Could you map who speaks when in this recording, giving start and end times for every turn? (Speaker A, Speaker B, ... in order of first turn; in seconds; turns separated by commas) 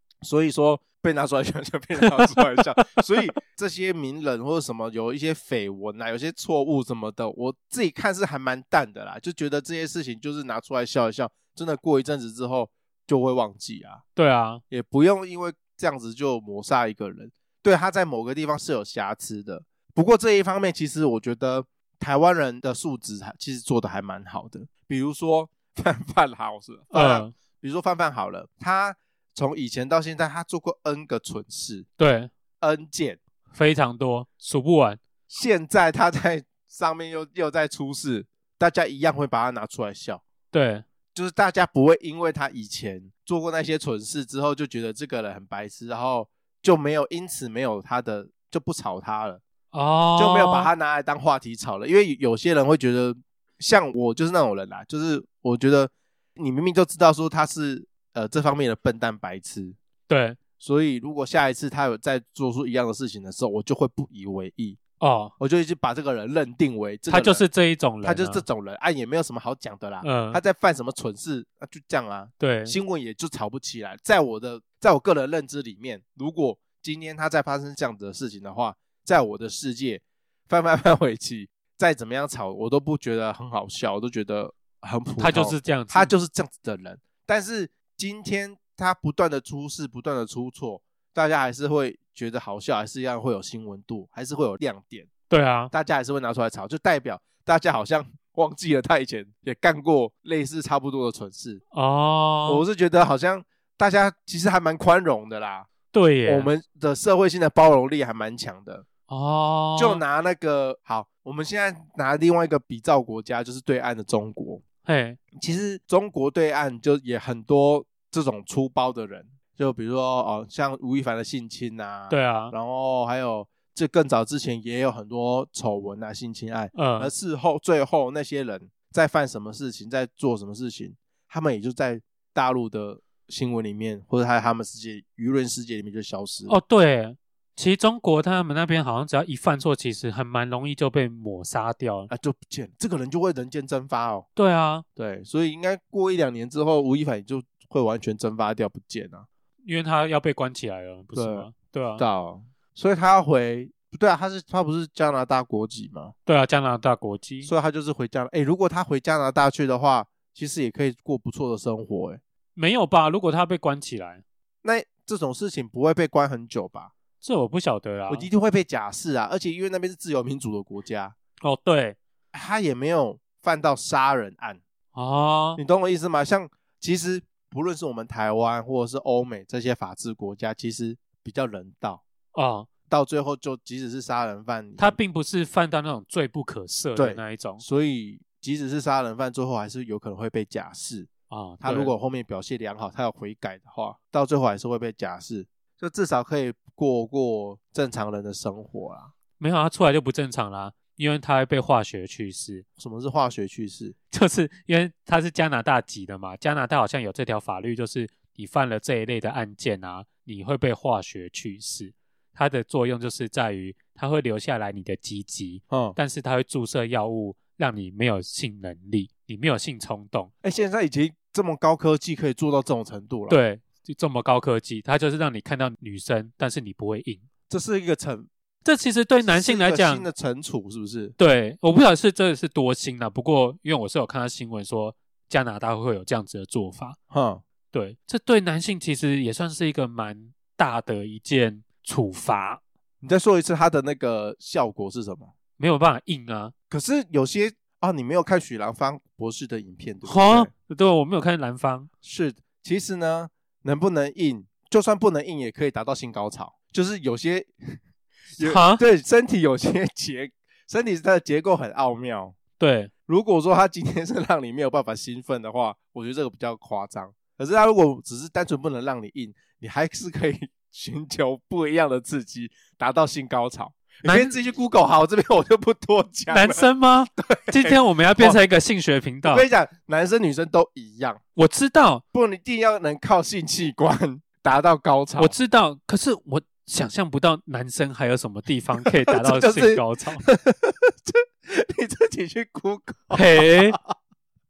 Speaker A: 0.2-14.0, Speaker B: 2.0-2.3, Speaker B: 14.2-14.6, Speaker A: 14.7-31.9, Speaker B: 26.9-27.3, Speaker B: 32.0-32.3, Speaker A: 32.6-33.2, Speaker B: 33.5-35.0, Speaker A: 35.3-40.2, Speaker B: 40.5-40.9, Speaker A: 41.1-49.4, Speaker B: 49.7-50.7, Speaker A: 50.2-59.8, Speaker B: 60.1-60.4, Speaker A: 60.6-64.8, Speaker B: 65.0-65.3, Speaker A: 65.4-67.4, Speaker B: 67.1-68.4, Speaker A: 68.0-95.1, Speaker B: 70.0-70.4, Speaker B: 72.4-72.8, Speaker B: 85.2-86.1, Speaker B: 95.3-95.7, Speaker A: 95.7-101.6, Speaker B: 101.7-102.6, Speaker A: 102.5-105.7, Speaker B: 105.9-106.5, Speaker A: 106.3-108.8, Speaker B: 109.1-110.0, Speaker A: 109.8-114.6, Speaker B: 114.8-115.2, Speaker A: 115.4-136.6, Speaker B: 122.1-122.5, Speaker B: 126.8-127.1, Speaker B: 136.5-142.1, Speaker A: 142.1-144.3, Speaker B: 144.4-144.8, Speaker A: 145.0-149.3, Speaker B: 149.7-152.0, Speaker A: 151.2-151.5, Speaker A: 152.0-156.1, Speaker B: 156.3-157.5, Speaker A: 157.4-162.2, Speaker B: 162.6-164.2, Speaker A: 164.6-166.9, Speaker B: 167.2-168.3, Speaker A: 168.1-171.2, Speaker B: 171.4-172.0, Speaker A: 172.3-174.6, Speaker B: 174.9-175.6, Speaker A: 175.6-182.0, Speaker B: 182.3-182.7, Speaker A: 182.9-185.0, Speaker B: 184.8-187.7, Speaker A: 187.0-191.1, Speaker B: 191.3-191.9, Speaker A: 191.6-199.1, Speaker B: 199.4-202.7, Speaker A: 202.8-203.9, Speaker B: 204.1-220.3, Speaker A: 215.7-216.0, Speaker A: 220.4-223.4, Speaker B: 223.3-227.2, Speaker A: 227.5-228.3, Speaker B: 228.7-230.1, Speaker A: 229.2-231.2, Speaker B: 231.2-237.0, Speaker A: 237.1-237.4, Speaker B: 237.7-242.6, Speaker A: 243.0-245.3, Speaker B: 245.6-246.5, Speaker A: 246.7-250.5, Speaker B: 250.1-251.9, Speaker A: 252.0-257.8, Speaker A: 258.4-262.4, Speaker B: 258.4-258.8, Speaker B: 262.6-262.9, Speaker A: 263.1-278.4, Speaker B: 274.1-274.3, Speaker B: 276.3-279.5, Speaker A: 279.3-281.2, Speaker B: 281.4-282.0, Speaker A: 282.1-285.4, Speaker B: 285.2-290.2, Speaker A: 289.1-293.9, Speaker B: 293.1-293.8